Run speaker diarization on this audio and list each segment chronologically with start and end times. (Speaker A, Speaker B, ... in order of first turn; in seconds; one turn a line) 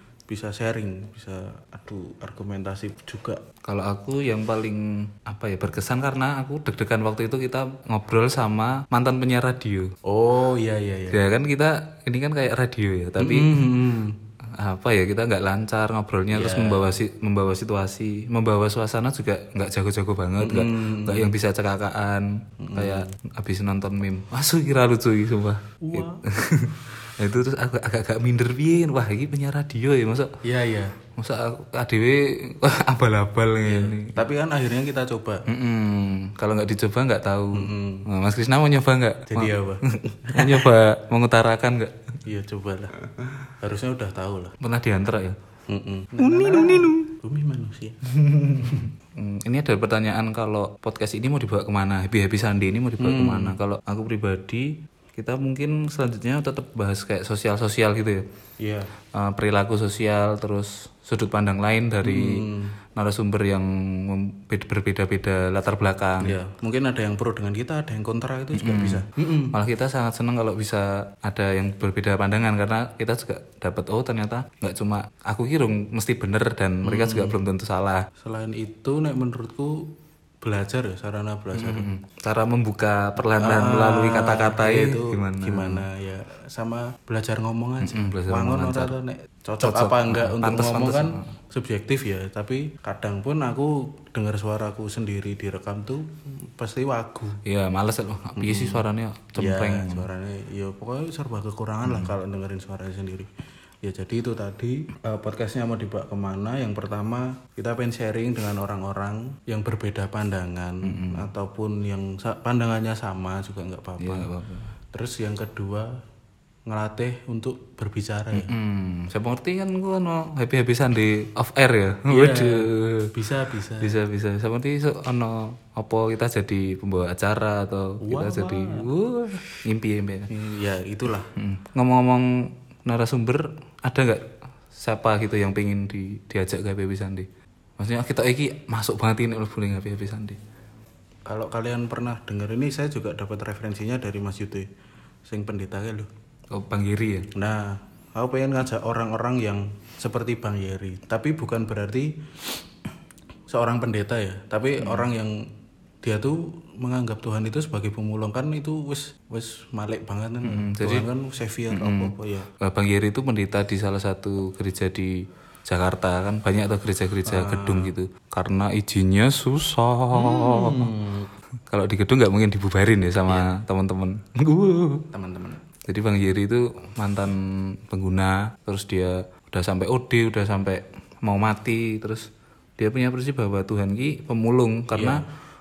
Speaker A: 0.3-3.4
Speaker B: 3.6-9.9
Speaker A: 10.1-11.2
Speaker B: 11.1-13.5
Speaker A: 13.2-14.2
Speaker B: 14.5-30.3
Speaker A: 16.3-16.9
Speaker A: 20.4-21.4
Speaker A: 22.6-23.1
Speaker A: 25.8-26.2
Speaker A: 30.4-30.9
Speaker B: 31.1-34.2
Speaker A: 33.6-35.4
Speaker B: 35.5-42.2
Speaker A: 37.5-38.1
Speaker A: 39.3-40.7
Speaker A: 42.2-43.0
Speaker A: 43.6-44.6
Speaker B: 44.6-45.4
Speaker A: 45.7-48.0
Speaker B: 46.2-47.1
Speaker B: 48.0-58.2
Speaker A: 53.0-53.6
Speaker A: 58.6-58.9
Speaker B: 59.1-66.4
Speaker A: 62.0-62.8
Speaker A: 66.2-69.6
Speaker B: 68.5-78.1
Speaker A: 76.8-77.4
Speaker A: 78.2-79.9
Speaker A: 80.4-81.9
Speaker B: 81.5-85.8
Speaker A: 83.4-97.4
Speaker B: 87.8-88.9
Speaker B: 89.6-91.3
Speaker B: 97.5-100.1
Speaker A: 98.4-98.8
Speaker A: 99.4-103.3
Speaker B: 101.9-102.1
Speaker A: 103.8-114.3
Speaker B: 110.8-111.3
Speaker B: 114.0-114.7
Speaker A: 114.9-115.9
Speaker A: 116.7-118.5
Speaker B: 118.3-123.1
Speaker A: 122.1-124.0
Speaker B: 123.8-130.3
Speaker A: 128.0-128.9
Speaker A: 130.3-131.3
Speaker B: 131.3-132.3
Speaker B: 132.8-140.4
Speaker A: 141.3-144.7
Speaker A: 145.3-146.1
Speaker B: 146.5-147.3
Speaker A: 147.3-152.1
Speaker A: 153.5-155.4
Speaker B: 154.8-155.1
Speaker A: 156.0-162.5
Speaker B: 160.4-161.1
Speaker B: 161.7-170.9
Speaker A: 167.2-167.9
Speaker A: 170.1-171.3
Speaker B: 171.7-175.0
Speaker A: 175.1-175.6
Speaker B: 175.9-182.3
Speaker B: 182.8-185.2
Speaker A: 184.9-185.2